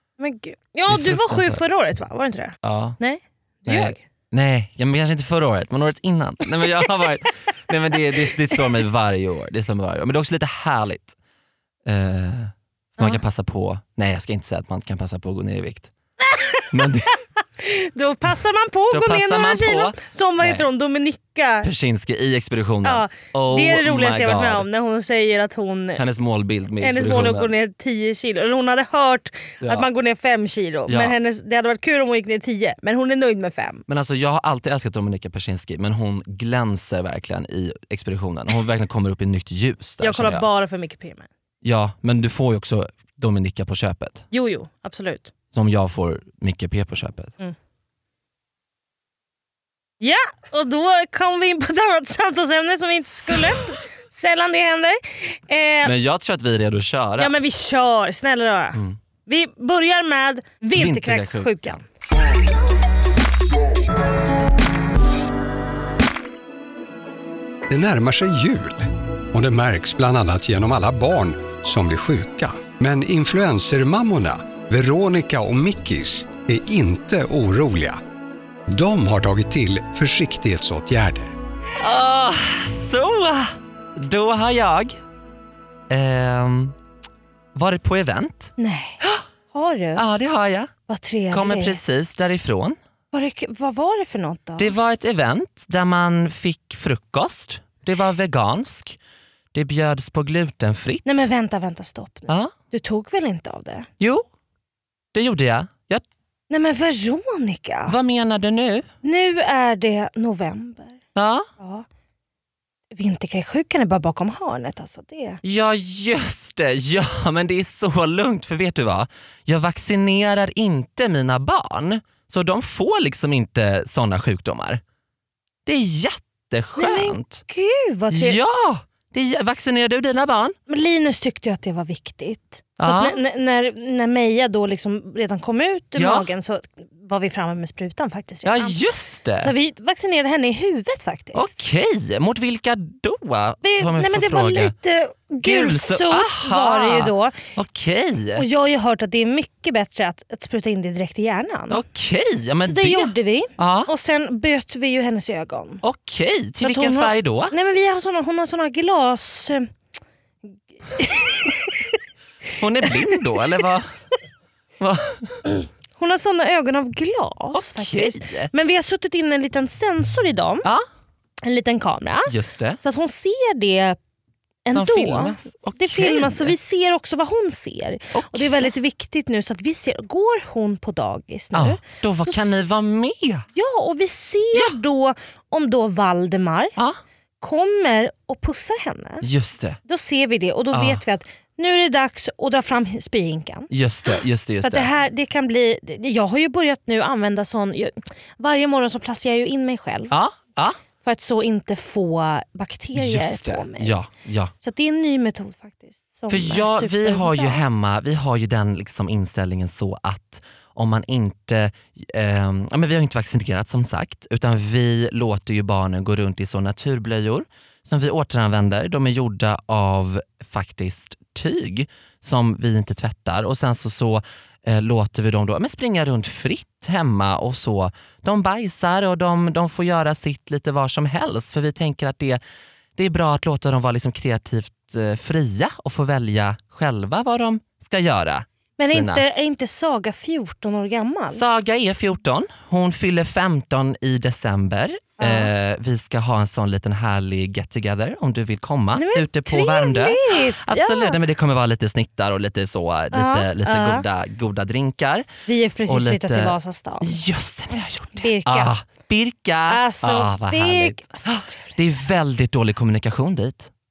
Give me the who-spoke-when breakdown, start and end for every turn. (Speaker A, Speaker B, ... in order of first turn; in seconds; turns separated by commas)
Speaker A: 0.2-4.0, Speaker B: 0.9-1.6, Speaker B: 2.6-3.0, Speaker B: 3.7-11.2, Speaker B: 11.8-15.9, Speaker A: 16.3-16.8, Speaker B: 16.7-17.2, Speaker A: 17.6-21.7, Speaker B: 18.9-20.7, Speaker B: 21.6-24.7, Speaker A: 22.8-26.0, Speaker B: 26.0-27.5, Speaker A: 26.8-33.8, Speaker B: 29.6-29.9, Speaker B: 30.9-31.2, Speaker B: 33.9-40.5, Speaker A: 40.0-41.3, Speaker B: 41.6-44.3, Speaker A: 44.3-45.3, Speaker B: 45.5-47.3, Speaker A: 50.0-55.9, Speaker B: 55.8-57.4, Speaker A: 57.2-61.8, Speaker B: 60.7-61.6, Speaker C: 67.7-78.0, Speaker C: 78.7-81.3, Speaker B: 81.8-85.0, Speaker B: 85.9-86.8, Speaker B: 87.5-89.2, Speaker A: 88.6-89.0, Speaker A: 89.5-90.0, Speaker B: 90.0-90.7, Speaker A: 90.9-91.8, Speaker B: 91.3-92.8, Speaker A: 93.1-94.7, Speaker B: 94.6-99.0, Speaker B: 99.5-101.3, Speaker A: 101.0-103.9, Speaker B: 102.3-102.5, Speaker B: 104.0-104.3, Speaker B: 105.1-106.0, Speaker A: 106.5-108.0, Speaker B: 107.9-108.9, Speaker A: 109.0-111.0, Speaker B: 111.2-111.5, Speaker A: 111.6-111.9, Speaker A: 112.9-115.4, Speaker B: 115.4-124.8, Speaker B: 125.7-127.4, Speaker A: 126.8-128.4, Speaker B: 128.1-130.6, Speaker A: 130.7-138.8, Speaker B: 132.8-133.2, Speaker B: 136.0-136.3, Speaker B: 138.4-139.5, Speaker A: 139.4-141.6, Speaker B: 141.3-144.8, Speaker A: 143.6-147.4, Speaker B: 145.4-148.4, Speaker A: 148.4-151.8, Speaker B: 151.7-153.9, Speaker A: 152.6-155.8, Speaker B: 155.8-157.5, Speaker A: 156.6-159.7, Speaker A: 160.9-161.9, Speaker B: 162.6-163.9, Speaker B: 164.8-165.4, Speaker A: 166.0-170.7, Speaker B: 167.5-168.5, Speaker A: 171.4-174.0, Speaker B: 172.3-172.8, Speaker A: 174.7-182.6, Speaker B: 174.7-176.6, Speaker B: 178.1-178.7, Speaker B: 181.5-183.4, Speaker A: 183.5-186.8, Speaker A: 187.4-189.2, Speaker B: 189.2-189.8, Speaker A: 189.8-193.7, Speaker B: 190.7-191.0, Speaker B: 193.7-194.9, Speaker A: 194.6-200.2, Speaker B: 200.1-200.8, Speaker A: 201.0-204.0, Speaker B: 202.9-204.5, Speaker A: 204.6-207.6, Speaker B: 206.3-232.4, Speaker B: 233.0-239.2, Speaker A: 238.8-241.4, Speaker B: 241.3-255.3, Speaker A: 245.2-245.5, Speaker A: 248.9-251.2, Speaker A: 253.1-254.0, Speaker A: 255.5-257.2, Speaker B: 255.8-263.7, Speaker A: 258.1-258.8, Speaker A: 259.7-261.8